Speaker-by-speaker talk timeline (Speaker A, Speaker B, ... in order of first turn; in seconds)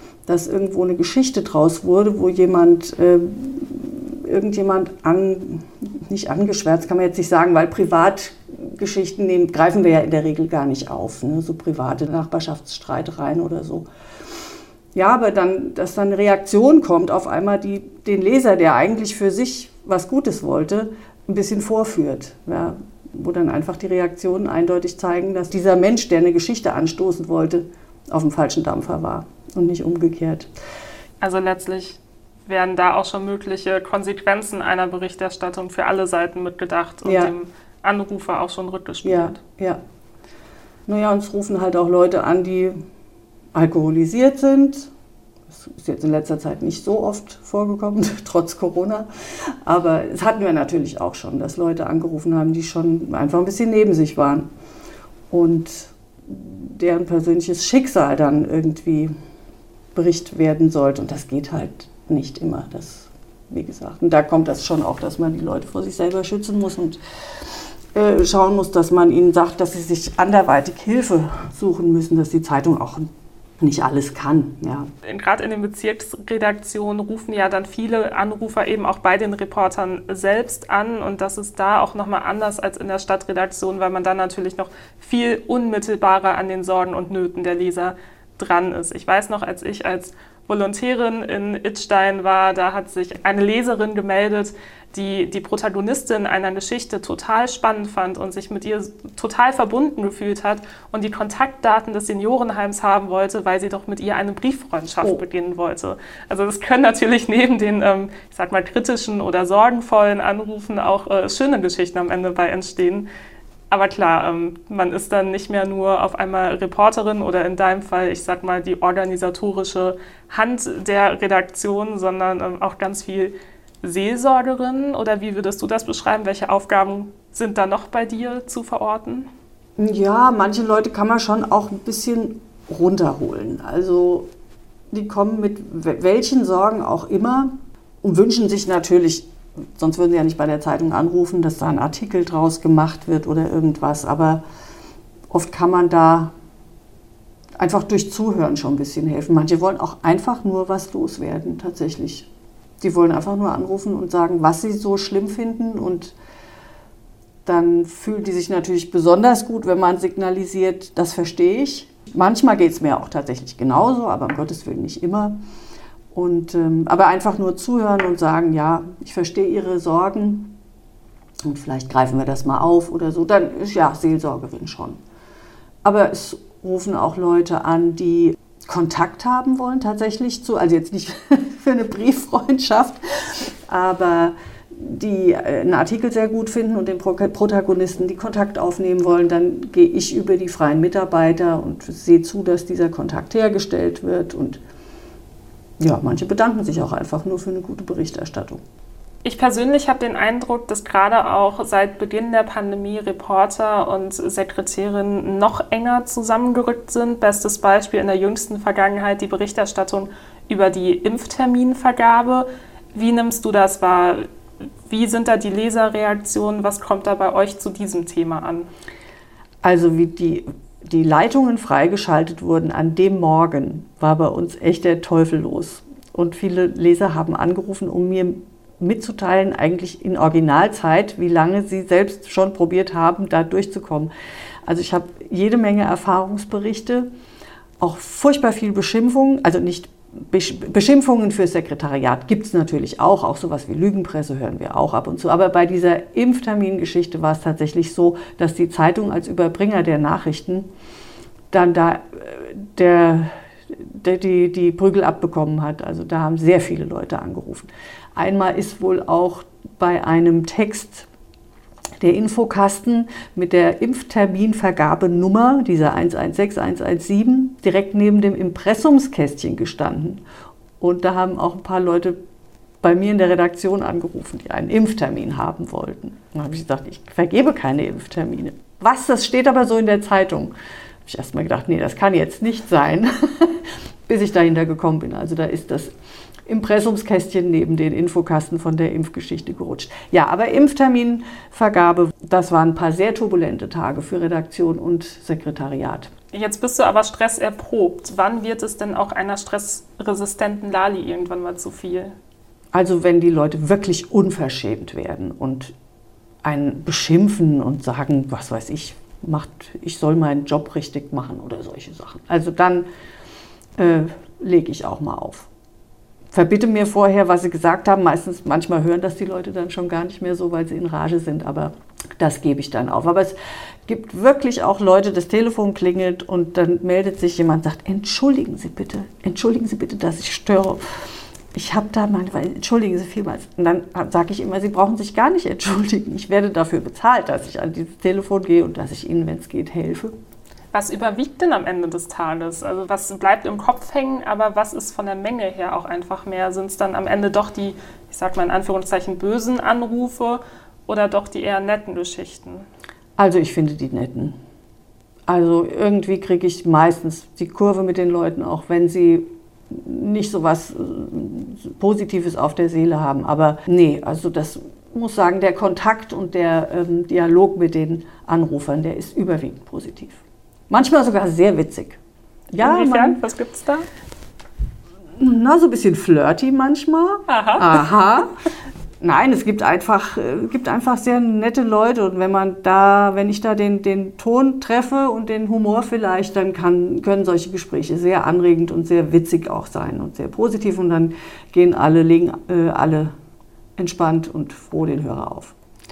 Speaker A: 0.2-13.8, 14.9-30.5, 37.0-37.3, 39.0-39.8, 40.9-42.8, 43.5-44.9, 45.5-54.5, 55.3-59.1, 59.9-67.0, 67.9-74.9, 129.8-134.3, 134.9-144.4, 145.3-146.3, 147.6-152.3, 152.8-156.1, 157.4-165.4, 166.1-170.5, 171.4-175.0, 175.8-194.6, 195.8-198.6, 219.6-234.1, 234.6-237.1, 237.8-250.7, 251.5-261.1, 262.0-270.2, 270.8-272.2, 272.8-280.5, 281.1-285.9, 286.4-296.1, 302.7-305.7, 306.4-312.9, 313.8-315.5, 316.3-330.8, 331.5-340.1, 353.2-354.4, 355.3-372.0, 372.5-373.2, 375.2-378.3, 379.0-393.1, 393.8-395.5
Speaker B: 31.2-39.4, 75.0-113.1, 113.7-129.3, 199.2-214.3, 214.9-218.7, 296.3-302.1, 340.7-352.6, 372.6-373.8, 377.3-377.7